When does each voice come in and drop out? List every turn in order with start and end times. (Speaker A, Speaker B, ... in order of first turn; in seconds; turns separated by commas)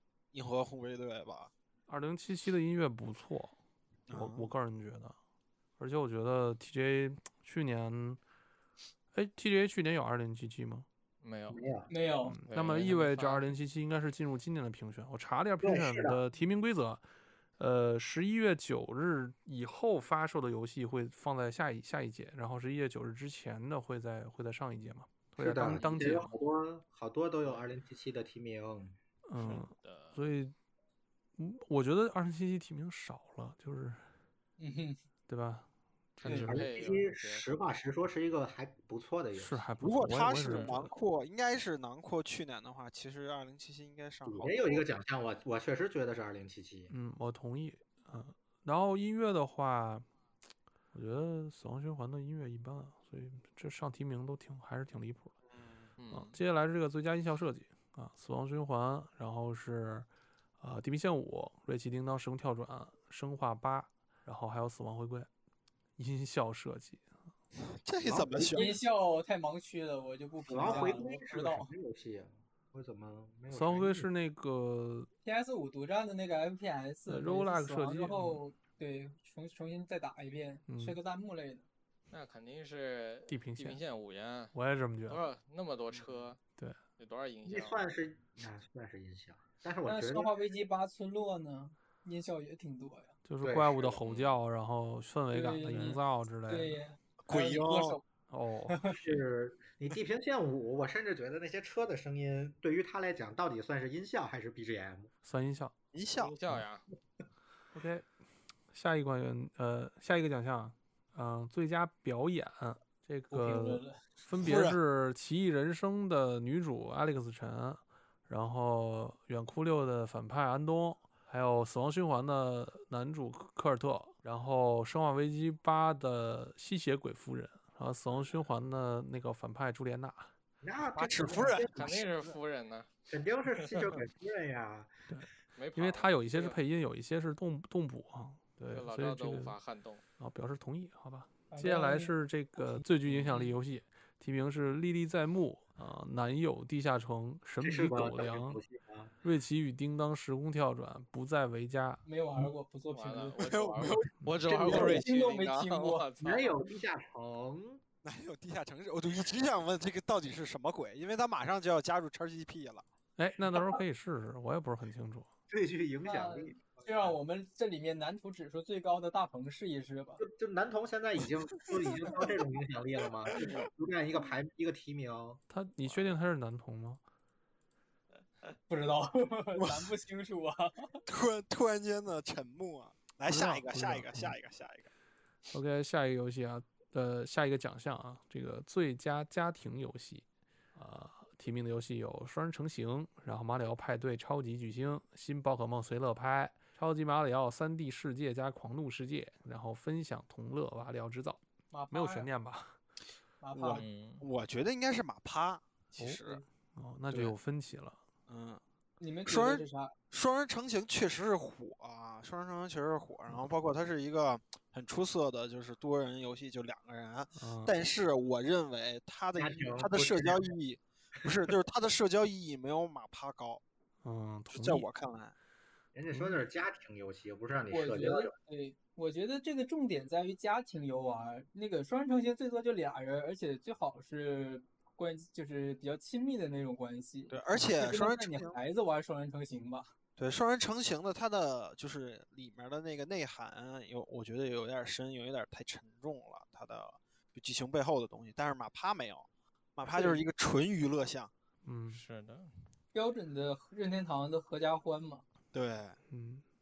Speaker A: 0.3-1.5, Speaker B: 1.9-3.6, Speaker A: 4.1-4.5, Speaker B: 4.1-5.2, Speaker B: 5.8-8.2, Speaker B: 9.1-10.9, Speaker C: 11.2-11.6, Speaker D: 11.5-11.9, Speaker E: 11.9-12.4, Speaker B: 12.3-17.0, Speaker C: 12.5-13.5, Speaker D: 15.6-16.2, Speaker B: 17.6-26.4, Speaker D: 25.4-29.0, Speaker B: 29.3-30.5, Speaker C: 29.4-30.2, Speaker B: 31.4-34.0, Speaker E: 34.6-35.0, Speaker B: 35.3-36.7, Speaker C: 36.2-37.5, Speaker E: 36.2-36.5, Speaker D: 36.5-39.7, Speaker B: 39.4-41.0, Speaker A: 39.8-44.9, Speaker C: 40.4-40.8, Speaker D: 44.3-46.9, Speaker B: 46.9-50.1, Speaker B: 50.9-55.4, Speaker A: 55.5-55.9, Speaker C: 56.0-56.4, Speaker B: 56.1-60.1, Speaker B: 60.6-65.3, Speaker B: 66.0-67.0, Speaker A: 67.6-68.8, Speaker D: 68.0-68.7, Speaker E: 68.5-71.7, Speaker D: 70.5-74.1, Speaker B: 73.5-75.1, Speaker E: 75.2-81.7, Speaker B: 77.1-78.4, Speaker B: 80.7-81.0, Speaker C: 82.1-84.5, Speaker B: 83.3-83.8, Speaker B: 84.5-85.2, Speaker C: 85.1-86.4, Speaker C: 87.0-87.8, Speaker D: 87.5-90.3, Speaker E: 89.8-93.1, Speaker B: 93.3-96.8, Speaker D: 93.4-94.0, Speaker C: 94.0-94.4, Speaker E: 95.3-98.0, Speaker A: 97.2-98.0, Speaker B: 98.3-99.2, Speaker E: 98.7-99.0, Speaker D: 98.9-105.1, Speaker B: 105.2-105.8, Speaker A: 105.9-106.4, Speaker C: 106.2-106.9, Speaker B: 107.7-108.1, Speaker B: 108.7-130.3, Speaker E: 113.3-114.1, Speaker A: 114.4-114.8, Speaker D: 130.6-132.0, Speaker A: 130.9-132.3, Speaker C: 131.7-132.9, Speaker D: 133.1-135.1, Speaker C: 133.6-133.9, Speaker B: 135.1-139.6, Speaker C: 135.6-136.6, Speaker C: 138.7-140.0, Speaker B: 140.2-148.6, Speaker E: 141.5-142.8, Speaker C: 143.1-143.6, Speaker D: 147.6-149.1, Speaker B: 149.2-152.0, Speaker E: 152.1-153.6, Speaker C: 152.9-156.6, Speaker A: 153.4-154.1, Speaker D: 154.5-155.0, Speaker E: 154.7-156.1, Speaker A: 154.7-154.9, Speaker D: 156.2-157.8, Speaker A: 158.0-162.9, Speaker B: 163.2-165.3, Speaker D: 165.5-167.2, Speaker E: 166.0-170.2, Speaker D: 170.2-175.4, Speaker A: 171.7-172.2, Speaker A: 173.3-173.7, Speaker B: 175.5-177.0, Speaker E: 178.7-181.0, Speaker A: 179.6-179.9, Speaker A: 181.1-184.9, Speaker B: 183.3-184.4, Speaker B: 185.5-202.8, Speaker E: 201.7-202.3, Speaker E: 203.4-203.8, Speaker A: 203.5-206.4, Speaker C: 203.8-204.2, Speaker B: 206.0-208.0, Speaker A: 207.1-207.3, Speaker A: 208.3-208.6, Speaker E: 209.0-209.9, Speaker A: 209.2-223.6, Speaker B: 217.4-217.7, Speaker D: 219.4-220.5, Speaker B: 224.0-224.9, Speaker A: 224.5-225.3, Speaker D: 225.9-228.3, Speaker B: 226.1-226.4, Speaker E: 227.7-239.9, Speaker A: 237.3-238.6, Speaker A: 240.2-251.3, Speaker E: 249.9-250.2, Speaker B: 251.6-252.0, Speaker C: 251.9-252.6, Speaker E: 252.9-255.2, Speaker A: 255.5-256.0, Speaker B: 256.1-256.4